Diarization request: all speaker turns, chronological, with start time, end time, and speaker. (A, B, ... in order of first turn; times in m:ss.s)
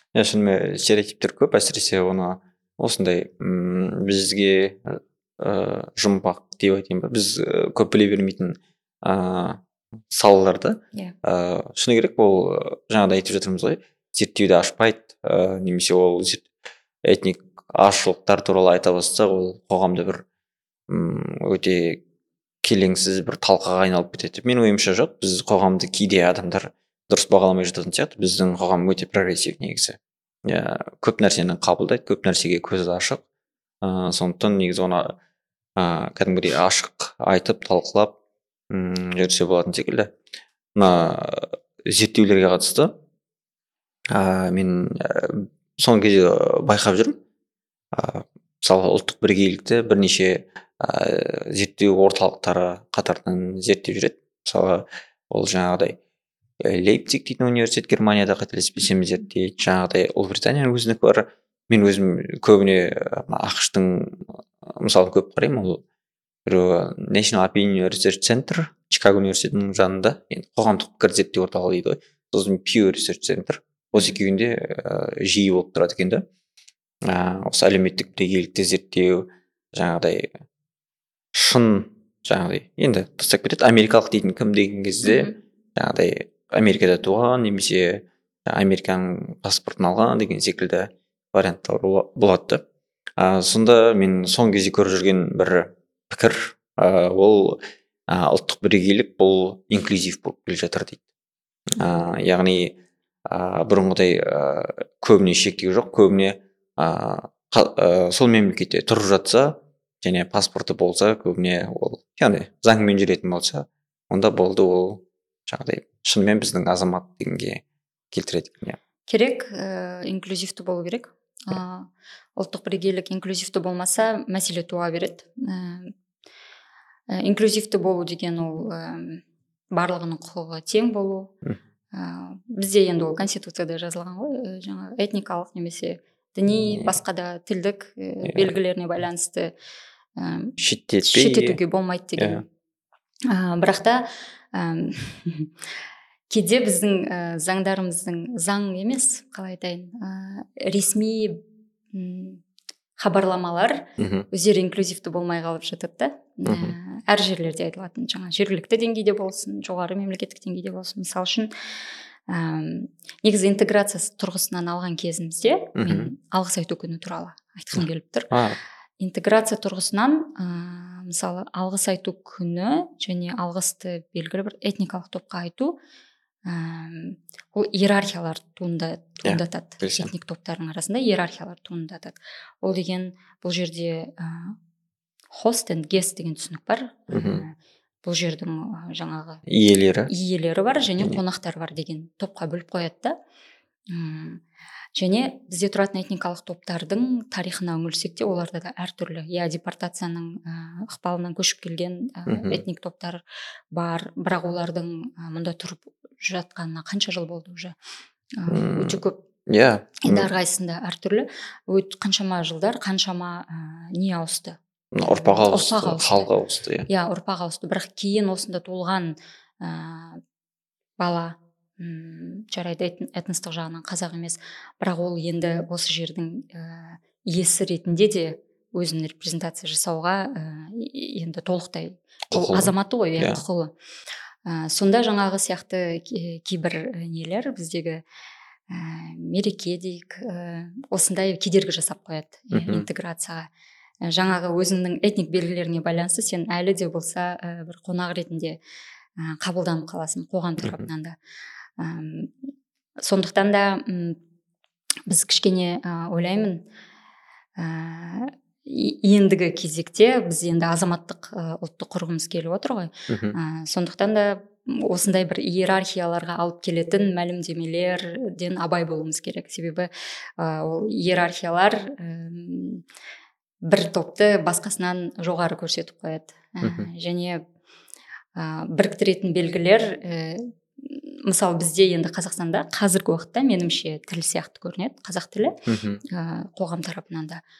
0:00.1-0:16.5 A
0:17.0-0:20.2 A
0:20.9-0:22.0 A
0:22.6-0:33.2 A
0:33.8-0:35.1 A
0:35.8-0:38.2 A
0:38.7-0:40.1 A
0:40.8-0:42.9 A
0:44.1-0:47.2 A
0:47.9-0:56.0 A
0:56.6-1:05.8 A
1:06.4-1:16.2 A
1:17.0-1:20.4 A
1:21.3-1:32.6 A
1:25.0-1:25.4 B
1:33.2-1:41.0 A
1:41.7-1:42.8 A
1:43.3-1:58.8 A
1:59.1-2:05.9 B
2:07.1-2:09.2 B
2:09.7-2:11.3 B
2:11.9-2:19.5 B
2:18.2-2:18.5 A
2:20.2-2:22.4 B
2:20.6-2:21.6 A
2:22.2-2:22.4 A
2:23.3-2:25.5 B
2:26.3-2:31.4 B
2:31.9-2:32.4 B
2:33.0-2:41.5 B
2:34.0-2:34.2 A
2:36.4-2:36.8 A
2:42.3-2:48.3 B
2:45.8-2:46.1 A
2:47.8-2:48.6 A
2:49.0-2:55.8 B
2:56.4-3:04.6 B
2:59.2-3:00.1 A
3:05.3-3:09.4 B
3:07.1-3:07.4 A
3:09.4-3:10.1 A
3:10.1-3:13.2 B
3:13.9-3:14.4 B
3:15.0-3:23.2 B
3:22.3-3:22.6 A
3:23.7-3:27.7 B
3:28.4-3:29.2 B
3:28.5-3:30.3 A
3:30.0-3:36.3 B
3:34.9-3:36.9 A
3:36.9-3:40.2 B
3:41.0-3:53.7 B
3:52.3-3:53.4 A
3:54.4-3:58.0 B
3:58.7-4:03.5 B
4:02.5-4:02.9 A
4:04.0-4:08.6 B
4:09.2-4:11.2 B
4:11.8-4:12.3 B
4:13.0-4:14.2 B
4:15.1-4:16.6 B
4:17.6-4:32.8 B
4:23.1-4:23.4 A
4:33.7-4:37.4 B
4:36.6-4:36.9 A
4:38.4-4:45.6 B
4:45.7-4:46.0 A
4:46.1-4:47.4 B